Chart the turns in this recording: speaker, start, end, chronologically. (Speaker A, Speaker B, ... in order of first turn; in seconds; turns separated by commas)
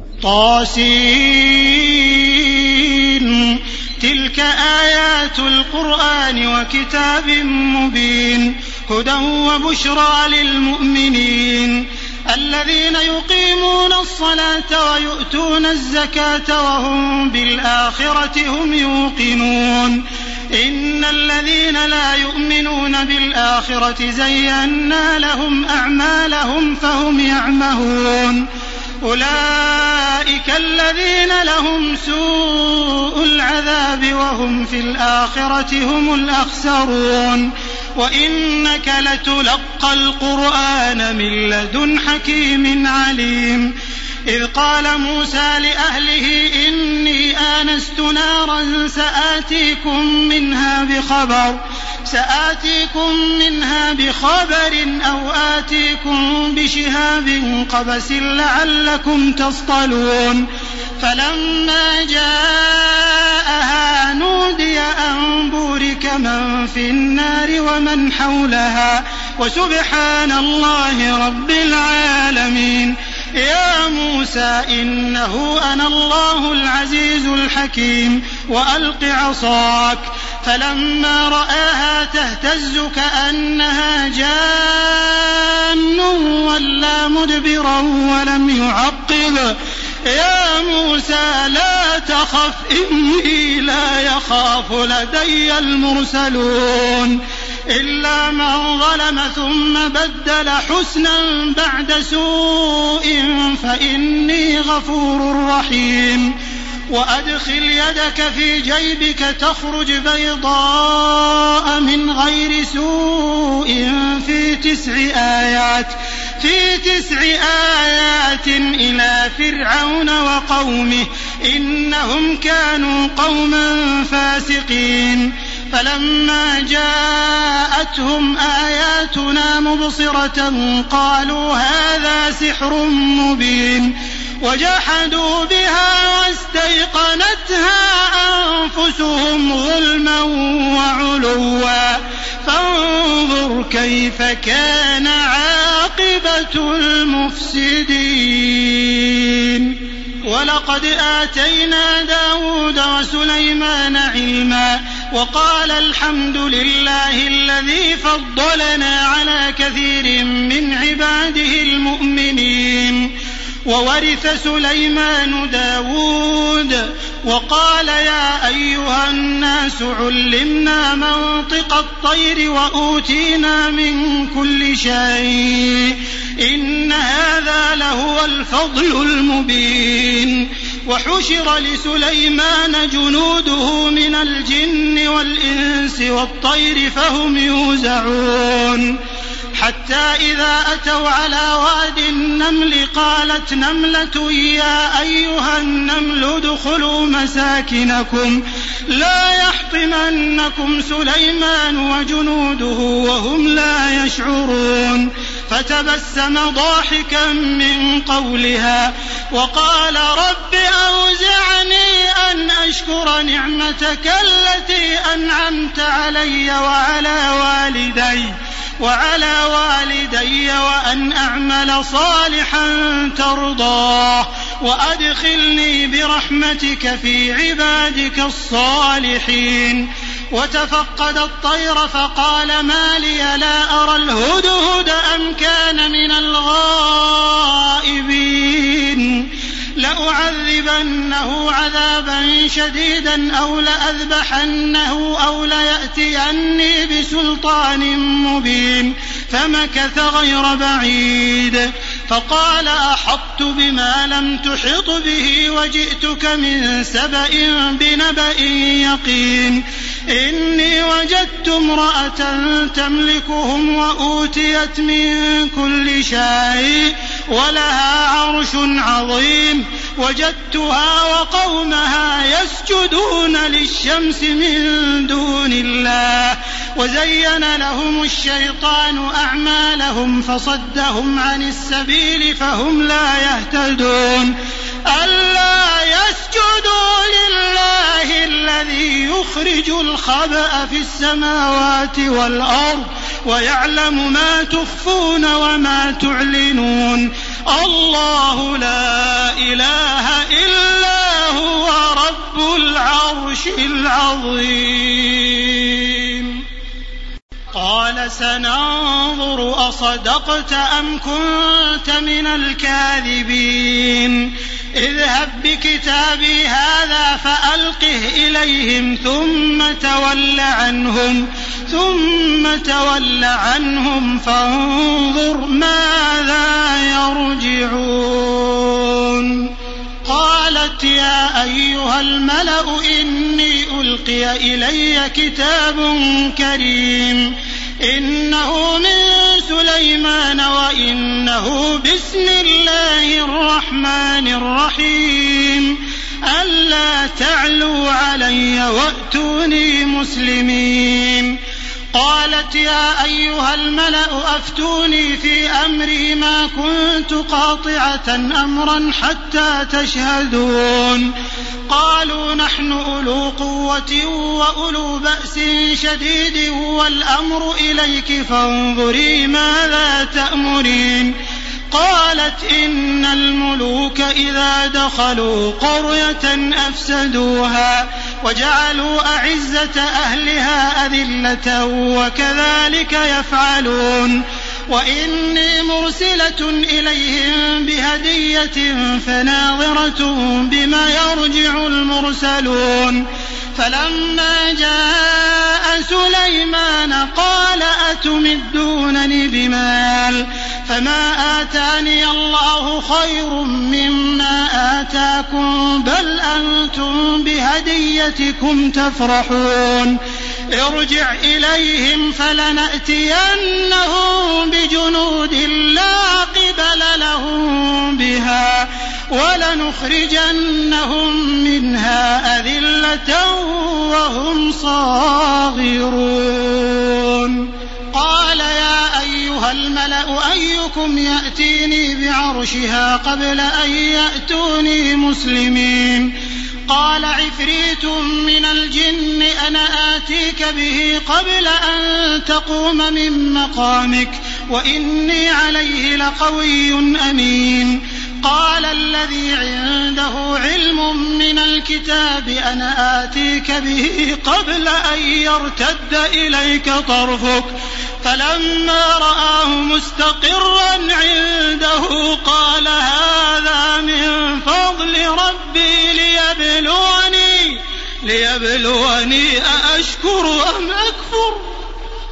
Speaker A: 0.2-20.0, Speaker A: 20.5-28.4, Speaker A: 29.0-43.7, Speaker A: 44.3-60.5, Speaker A: 61.0-89.5, Speaker A: 90.1-106.3, Speaker A: 106.9-163.1, Speaker A: 163.7-189.0, Speaker A: 189.6-284.3, Speaker A: 284.9-306.4, Speaker A: 307.5-329.5, Speaker A: 330.1-351.4, Speaker A: 351.9-361.1, Speaker A: 361.7-371.1, Speaker A: 371.7-410.0, Speaker A: 410.5-436.1, Speaker A: 436.7-471.5